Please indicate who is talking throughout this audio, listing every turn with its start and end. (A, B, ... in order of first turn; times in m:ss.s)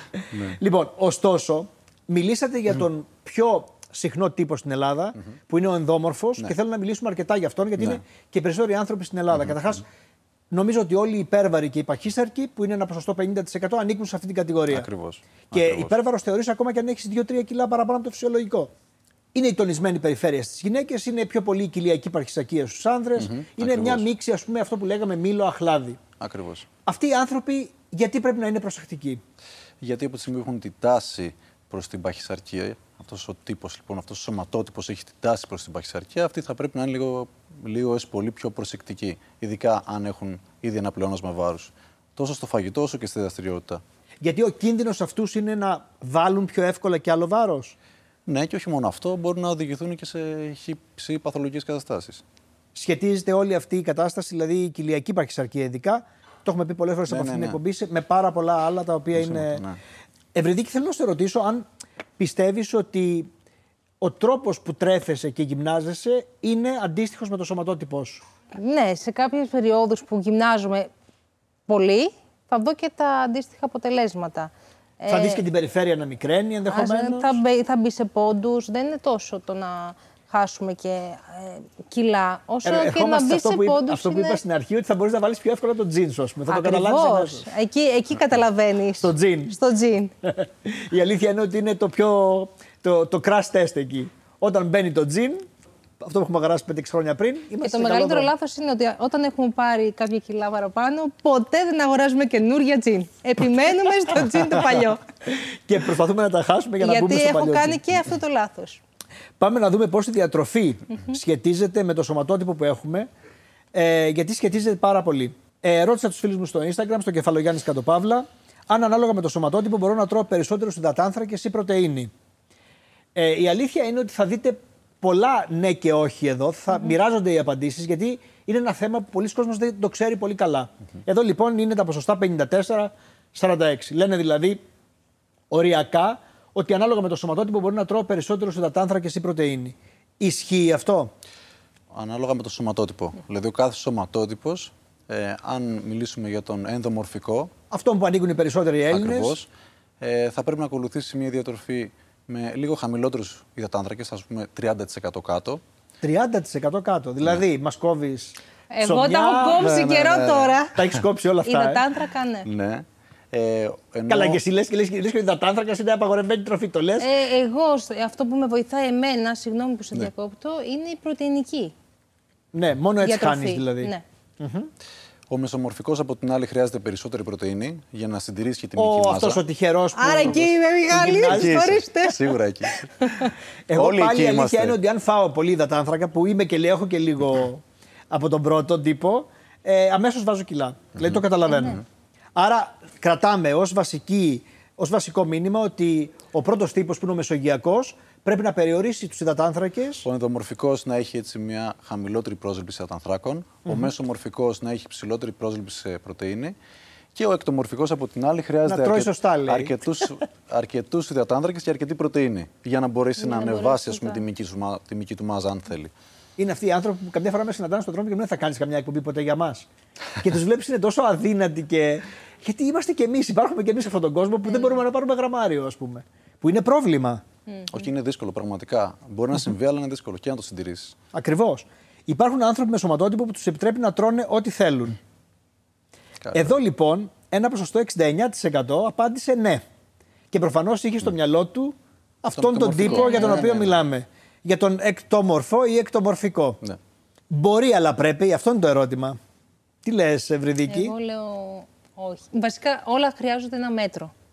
0:00.2-0:09.8 A
0:10.5-0:14.9 A
0:14.7-0:15.9 B
0:15.5-0:18.7 A
0:19.3-0:26.0 A
0:23.2-0:24.0 B
0:26.2-0:26.7 B
0:26.8-0:29.2 A
0:29.8-0:43.8 B
0:44.2-0:47.8 A
0:48.2-0:52.2 B
0:52.8-0:59.6 A
0:57.1-0:57.6 B
0:59.1-0:59.8 B
1:00.3-1:01.6 A
1:02.2-1:03.3 A
1:04.0-1:08.2 A
1:08.5-1:10.9 C
1:11.7-1:15.4 C
1:15.1-1:17.4 A
1:16.7-1:24.4 C
1:22.6-1:27.5 A
1:26.5-1:30.1 C
1:29.0-1:29.5 A
1:30.2-1:35.4 A
1:36.0-1:38.3 A
1:37.6-1:45.0 C
1:45.3-1:47.8 A
1:46.8-1:48.8 C
1:49.4-1:53.1 A
1:53.7-2:02.1 A
2:03.1-2:14.6 A
2:15.5-2:21.1 A
2:21.9-2:27.5 B
2:27.7-2:29.4 A
2:28.9-2:29.5 B
2:30.0-2:35.6 B
2:36.0-2:39.7 A
2:38.7-2:40.8 C
2:39.5-2:40.6 B
2:40.7-2:41.8 A
2:41.4-2:42.5 C
2:42.4-2:44.4 B
2:44.1-2:47.1 A
2:47.0-2:51.7 C
2:52.5-2:54.7 A
2:53.0-2:54.0 C
2:55.3-2:59.4 B
2:58.8-3:01.8 A
2:59.9-3:03.3 C
3:00.9-3:02.9 B
3:03.7-3:11.8 A
3:03.7-3:04.8 B
3:11.5-3:11.8 C
3:12.3-3:20.0 A
3:20.0-3:26.6 B
3:23.6-3:23.9 A
3:27.1-3:35.9 B
3:28.6-3:29.8 A
3:33.2-3:34.2 C
3:36.4-3:47.2 A
3:47.7-3:51.0 B
3:51.1-3:55.0 A
3:56.2-3:56.5 B
3:56.3-3:59.6 A
4:00.3-4:06.6 A
4:02.4-4:03.8 B
4:02.8-4:03.5 C
4:07.3-4:09.2 A
4:09.8-4:10.9 A
4:10.7-4:14.1 C